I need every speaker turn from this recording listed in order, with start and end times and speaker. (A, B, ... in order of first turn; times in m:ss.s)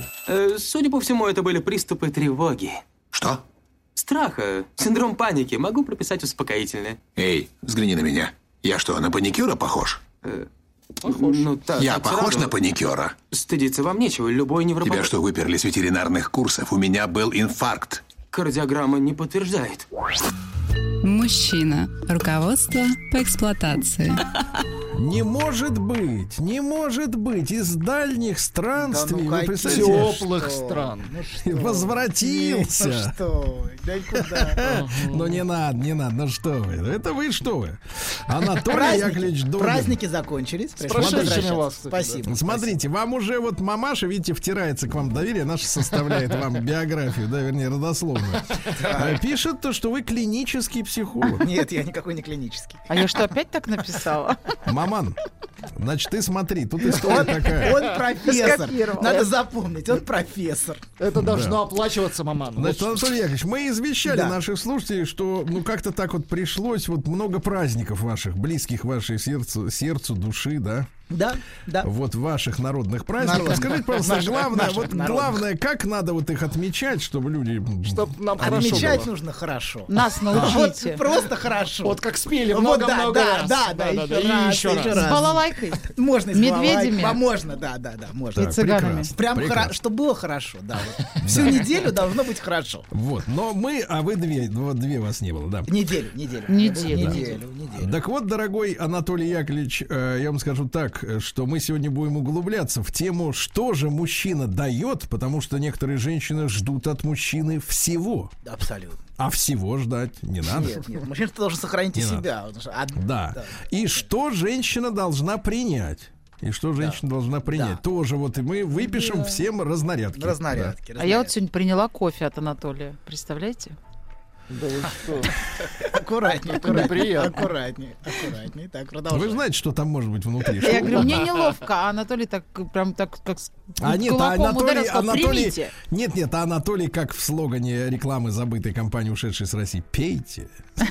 0:00.3-0:02.8 A
0:03.1-0:03.4 B
0:04.0-0:07.0 A
0:07.2-0:10.0 B
0:11.0-0:12.6 A
0:11.1-0:11.3 C
0:11.8-0:13.2 B
0:13.3-0:15.1 A
0:14.8-0:18.0 B
0:18.3-0:19.9 A
0:21.0-0:24.2 D
0:24.9-0:30.3 E
0:28.8-0:34.8 F
0:29.6-0:31.1 G
0:31.4-0:33.2 E
0:34.1-0:40.0 E
0:34.6-0:35.4 G
0:38.7-0:42.8 F
0:40.8-0:42.3 G
0:40.9-0:41.5 E
0:42.3-0:51.5 E
0:48.8-0:49.2 F
0:51.4-0:52.9 F
0:52.9-0:54.4 C
0:54.6-0:55.2 E
0:55.8-0:57.8 E
0:57.0-1:00.9 F
0:58.2-0:59.3 C
1:01.0-1:03.1 G
1:01.2-1:01.6 E
1:02.6-1:10.9 E
1:04.0-1:04.4 F
1:11.1-1:11.9 F
1:11.8-1:19.1 E
1:13.2-1:15.4 F
1:17.9-1:19.1 G
1:18.4-1:28.5 F
1:19.9-1:21.0 C
1:20.3-1:20.6 G
1:21.8-1:25.3 G
1:24.9-1:27.2 C
1:28.4-1:29.8 E
1:28.4-1:29.1 C
1:29.1-1:32.9 F
1:31.2-1:31.8 E
1:32.9-1:35.8 E
1:35.7-1:38.0 F
1:36.5-1:37.3 C
1:36.9-1:48.3 E
1:48.4-1:49.0 F
1:49.2-1:50.8 E
1:50.5-1:53.6 F
1:51.9-1:52.3 E
1:53.0-2:00.8 E
1:56.8-1:57.8 F
2:00.1-2:01.3 F
2:01.0-2:03.8 C
2:04.5-2:05.3 G
2:05.6-2:09.5 F
2:06.4-2:07.5 G
2:09.1-2:11.2 E
2:10.6-2:15.7 C
2:13.8-2:20.6 E